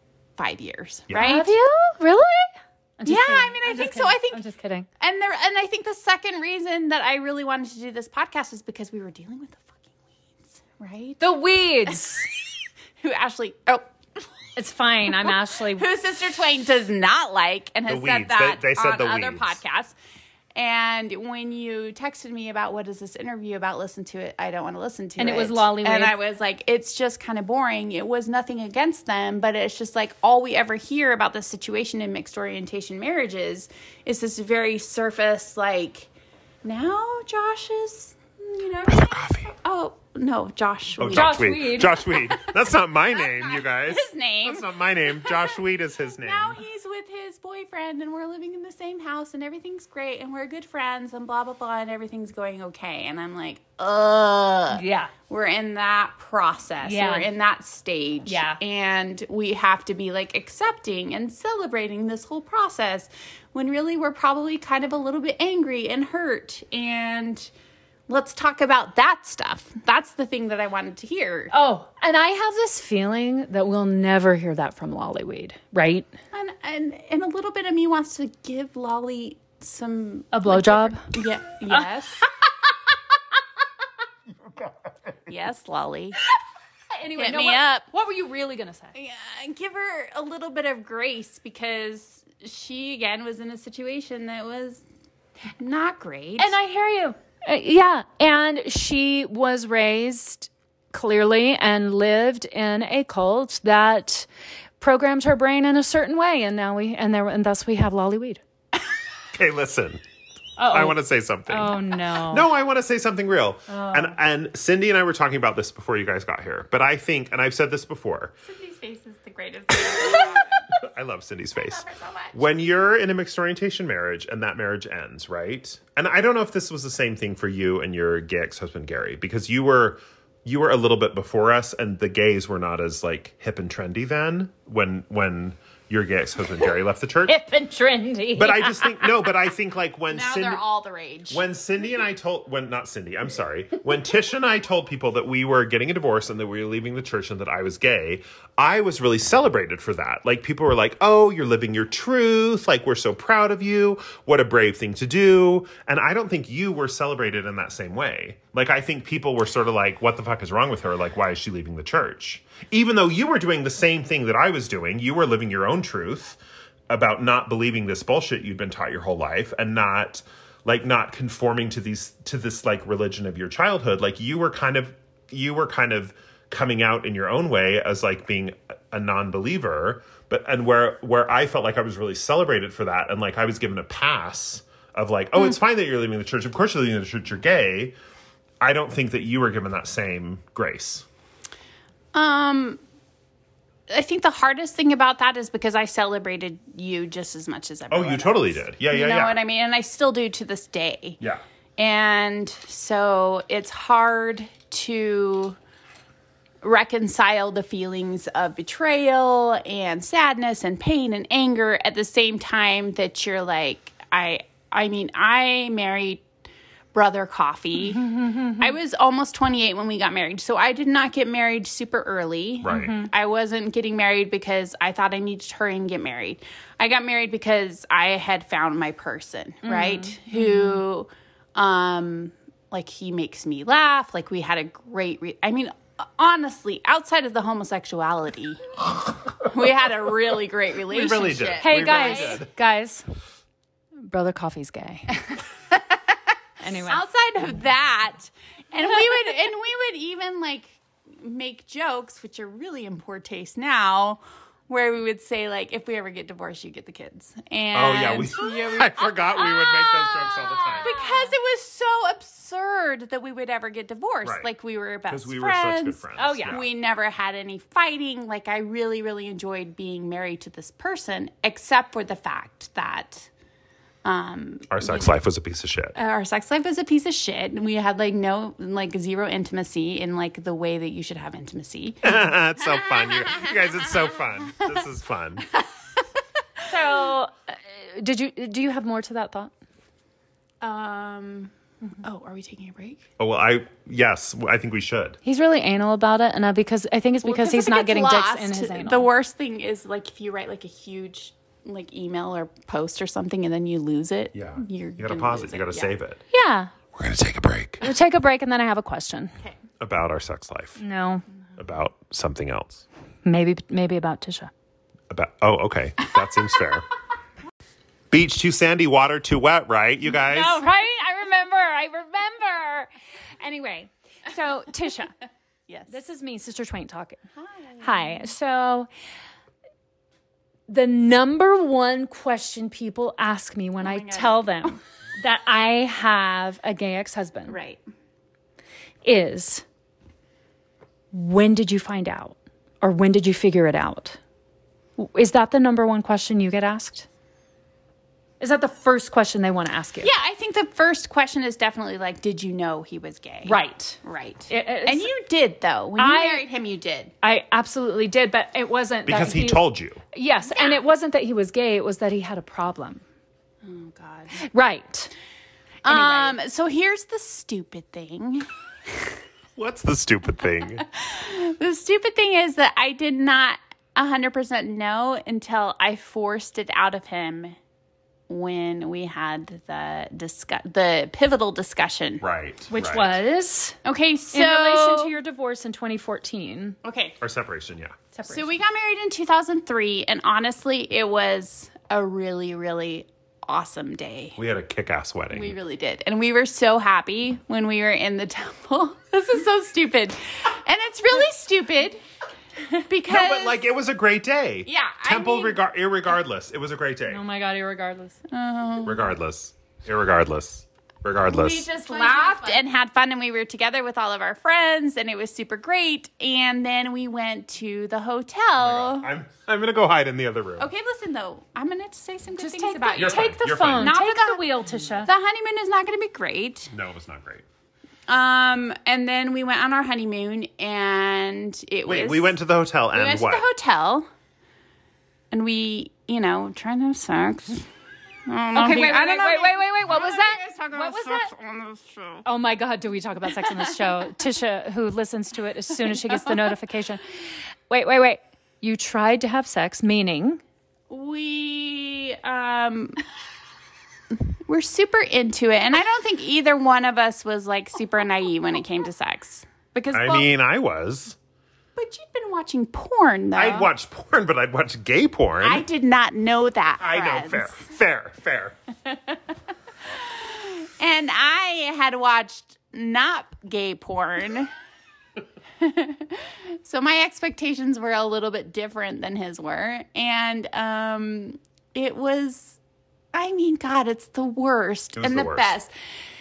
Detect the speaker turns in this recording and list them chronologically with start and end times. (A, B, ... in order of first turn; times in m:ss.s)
0:00.4-0:01.5 A
0:01.1-0:01.4 B
0:01.2-0:04.9 C
0:03.1-0:04.4 A
0:05.0-0:11.4 A
0:11.2-0:12.3 C
0:13.0-0:14.2 A
0:14.6-0:15.9 C
0:15.2-0:20.0 A
0:17.9-0:19.6 B
0:20.5-0:36.1 A
0:25.2-0:26.2 C
0:36.6-0:42.3 A
0:38.9-0:39.5 B
0:41.0-0:46.6 B
0:41.1-0:42.1 C
0:43.1-1:07.5 A
0:54.7-0:55.1 C
0:56.8-0:57.3 C
0:58.3-0:58.6 C
1:08.1-1:11.5 A
1:11.5-1:16.1 C
1:16.3-1:22.3 A
1:20.3-1:21.1 C
1:25.3-1:26.2 A
1:26.9-1:28.9 C
1:27.2-1:27.9 A
1:29.0-1:34.8 A
1:35.6-1:36.6 A
1:36.4-1:44.3 C
1:44.8-1:48.4 C
1:49.3-1:50.0 B
1:50.6-1:52.5 C
1:50.7-1:58.4 B
1:53.7-1:54.2 C
1:58.4-2:00.6 A
1:59.8-2:17.4 B
2:01.6-2:02.4 A
2:17.3-2:19.2 C
2:18.4-2:20.6 B
2:20.1-2:21.4 A
2:21.3-3:08.0 B
3:08.6-3:11.1 B
3:12.1-3:12.8 A
3:13.9-3:21.2 A
3:17.9-3:19.4 B
3:21.8-3:25.6 A
3:26.6-3:36.2 A
3:36.9-4:02.4 A
3:38.0-3:38.6 C
3:42.6-3:43.0 B
3:42.7-3:43.1 C
3:49.6-3:50.8 C
4:00.9-4:02.5 B
4:01.6-4:03.0 C
4:04.0-4:05.3 C
4:06.6-4:07.0 C
4:06.9-4:20.2 A
4:17.7-4:20.9 B
4:20.6-4:21.3 C
4:20.8-4:33.3 A
4:24.2-4:24.5 B
4:25.1-4:26.7 B
4:26.2-4:26.6 C
4:34.0-4:35.1 A
4:34.7-4:36.0 B
4:36.0-4:42.2 A
4:42.0-4:45.5 B
4:42.8-4:43.4 A
4:46.7-4:49.5 C
4:50.6-4:51.5 A
4:52.0-4:53.1 A
4:53.2-4:55.2 B
4:55.2-4:59.1 C
4:57.2-5:05.9 A
5:04.3-5:06.2 B
5:06.3-5:06.7 C
5:06.9-5:07.8 B
5:07.8-5:09.4 C
5:09.8-5:10.8 B
5:10.8-5:11.2 C
5:11.6-5:12.8 B
5:13.2-5:14.5 C
5:15.1-5:16.9 B
5:18.1-5:20.6 B
5:20.2-5:25.1 C
5:25.7-5:25.9 A
5:25.9-5:27.2 C
5:27.4-5:28.3 A
5:27.8-5:28.9 C
5:30.7-5:37.6 C
5:33.8-5:34.8 A
5:37.5-5:37.8 A
5:39.0-5:39.6 C
5:41.1-5:44.2 C
5:45.0-5:47.1 C
5:48.4-5:50.1 C
5:50.0-5:57.1 A
5:53.4-5:55.1 C
5:56.0-5:56.4 C
5:57.2-6:03.0 C
5:59.1-6:00.0 B
6:00.4-6:00.8 A
6:03.6-6:04.4 A
6:04.4-6:05.1 C
6:05.8-6:09.1 A
6:05.8-6:06.4 C
6:09.6-6:10.8 B
6:10.9-6:17.6 A
6:18.3-6:22.2 A
6:22.2-6:23.2 B
6:22.7-6:23.8 C
6:23.8-6:25.1 A
6:24.3-6:26.8 C
6:26.8-6:27.2 A
6:27.2-6:28.0 B
6:28.1-6:28.5 C
6:28.3-6:34.4 A
6:34.4-6:35.6 B
6:35.3-6:42.0 A
6:42.7-6:43.7 A
6:43.1-6:47.2 B
6:44.7-6:45.6 A
6:47.1-6:48.2 C
6:48.3-6:49.0 A
6:48.8-6:51.7 B
6:51.2-6:59.1 A
6:51.8-6:52.7 C
6:58.6-7:00.7 B
7:00.6-7:06.7 A
7:02.4-7:05.1 C
7:03.0-7:04.0 B
7:06.7-7:07.4 B
7:08.1-7:12.4 A
7:11.9-7:13.5 B
7:12.9-7:14.1 A
7:15.3-7:17.7 A
7:18.3-7:22.2 A
7:18.5-7:21.3 C
7:22.2-7:30.4 C
7:30.9-7:33.0 A
7:34.1-7:40.3 A
7:39.9-7:41.2 B
7:41.8-7:43.7 A
7:43.4-7:45.7 B
7:45.4-7:47.7 A
7:46.8-7:48.6 B
7:50.0-7:54.5 A
7:55.6-8:02.6 A
8:03.1-8:05.7 A
8:05.0-8:05.6 B